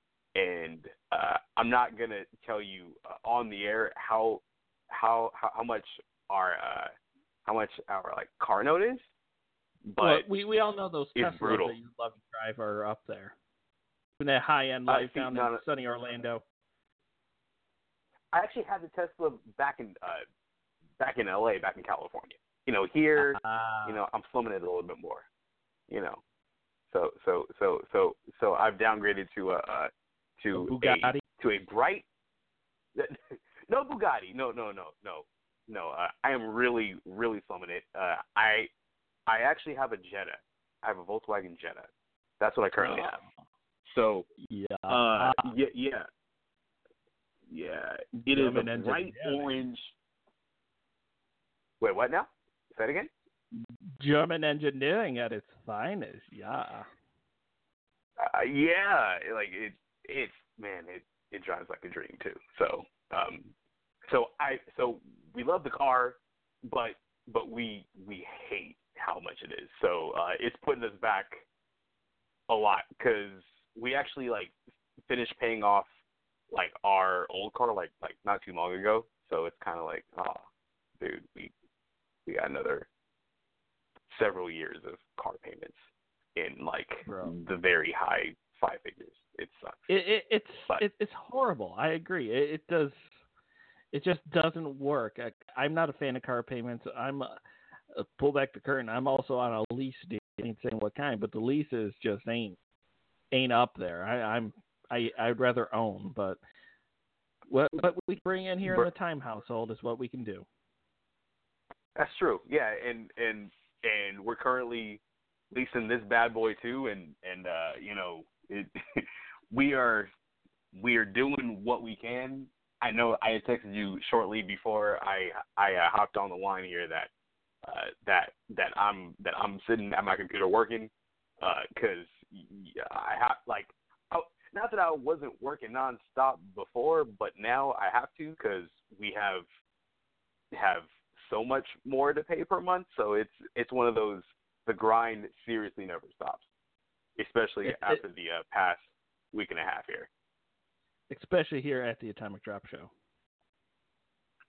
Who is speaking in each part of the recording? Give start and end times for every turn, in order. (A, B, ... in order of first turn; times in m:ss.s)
0:00.3-0:06.9 A
0:07.4-0:09.0 A
0:09.8-0:10.2 A
0:10.0-0:13.3 B
0:11.2-0:11.7 A
0:14.2-0:16.4 B
0:14.9-0:15.6 A
0:18.3-0:20.2 A
0:21.0-0:25.3 A
0:23.2-0:24.0 B
0:25.9-0:26.2 A
0:26.9-0:32.0 A
0:30.5-0:31.2 B
0:33.0-0:38.7 A
0:39.3-0:43.2 A
0:42.8-0:43.2 B
0:43.8-0:44.3 A
0:44.4-0:45.5 B
0:44.9-0:46.1 A
0:47.5-0:49.9 A
0:48.1-0:49.6 B
0:51.8-0:53.1 A
0:53.5-0:56.9 B
0:58.2-1:03.5 A
1:04.1-1:11.4 A
1:12.5-1:14.5 A
1:15.1-1:15.9 A
1:16.5-1:20.4 A
1:21.0-1:21.5 A
1:22.2-1:22.9 A
1:24.1-1:25.8 A
1:26.3-1:29.9 A
1:27.0-1:27.3 B
1:29.9-1:33.0 B
1:33.9-1:37.4 B
1:37.9-1:42.6 B
1:43.3-1:46.4 B
1:47.5-1:50.4 B
1:52.0-1:55.0 A
1:55.5-2:00.1 A
2:00.7-2:07.1 A
2:07.6-2:19.4 A
2:20.5-2:26.4 A
2:27.2-2:30.1 A
2:27.6-2:28.0 B
2:31.1-2:32.9 B